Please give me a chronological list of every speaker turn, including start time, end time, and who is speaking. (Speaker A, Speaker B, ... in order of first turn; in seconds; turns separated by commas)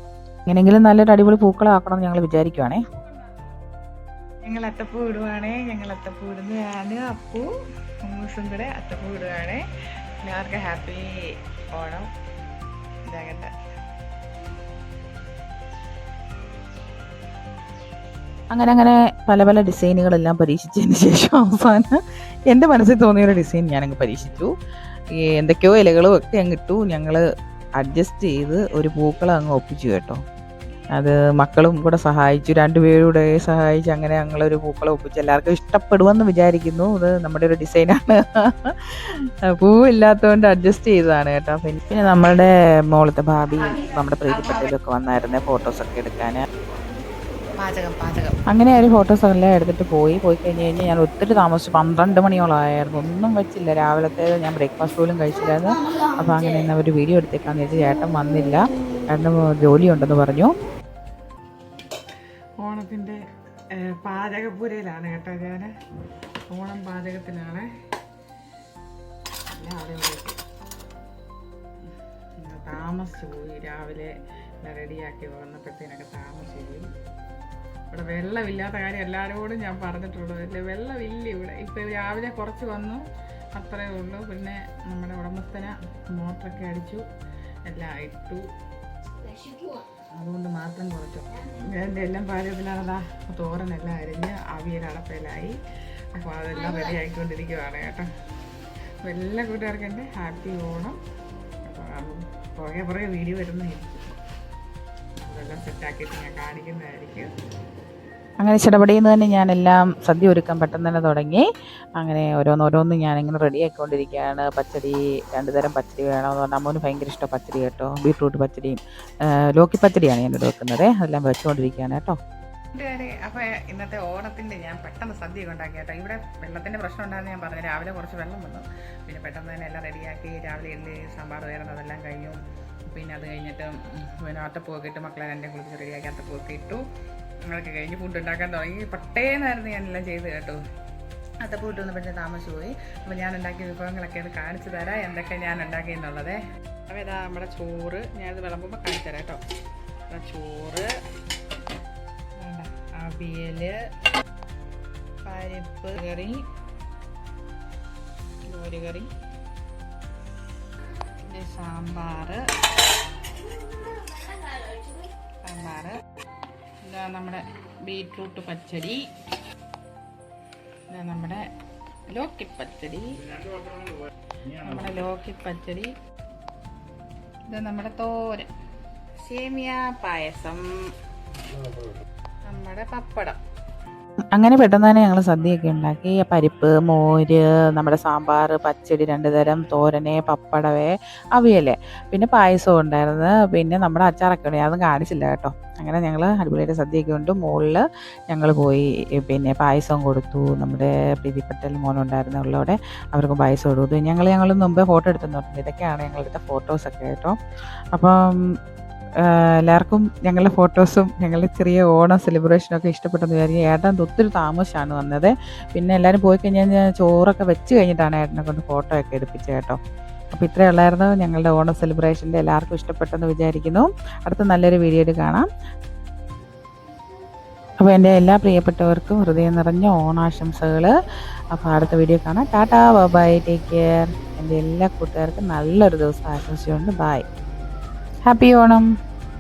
Speaker A: 0.5-2.8, Speaker B: 4.4-7.5, Speaker B: 8.0-9.6, Speaker B: 10.2-11.1, Speaker B: 11.8-12.1, Speaker B: 13.1-13.5, Speaker A: 18.5-22.0, Speaker A: 22.5-24.5, Speaker A: 25.3-27.2, Speaker A: 27.8-30.2, Speaker A: 30.9-46.4, Speaker B: 47.6-48.4, Speaker A: 48.5-60.5, Speaker B: 62.6-63.2, Speaker B: 63.8-65.7, Speaker B: 66.5-67.7, Speaker B: 69.5-70.4, Speaker B: 72.4-74.1, Speaker B: 74.6-76.9, Speaker B: 77.9-83.0, Speaker B: 83.6-87.0, Speaker B: 87.7-88.4, Speaker B: 89.7-95.5, Speaker B: 96.2-98.0, Speaker B: 99.0-101.0, Speaker B: 101.7-104.2, Speaker B: 105.2-107.3, Speaker A: 108.4-111.5, Speaker A: 112.0-118.8, Speaker A: 119.5-122.2, Speaker B: 122.8-136.8, Speaker B: 137.5-140.6, Speaker B: 141.4-149.4, Speaker B: 150.1-150.9, Speaker B: 152.4-153.8, Speaker B: 155.2-156.4, Speaker B: 158.5-159.1, Speaker B: 161.3-162.4, Speaker B: 165.4-166.0, Speaker B: 166.8-169.1, Speaker B: 170.9-171.4, Speaker B: 172.1-173.2, Speaker B: 174.6-175.9, Speaker B: 177.5-178.5, Speaker B: 179.2-180.7, Speaker B: 182.5-183.4, Speaker A: 184.3-207.3, Speaker A: 207.9-208.4, Speaker A: 209.2-219.8, Speaker A: 220.3-225.5, Speaker A: 227.8-230.9, Speaker A: 231.5-237.2, Speaker A: 238.3-238.9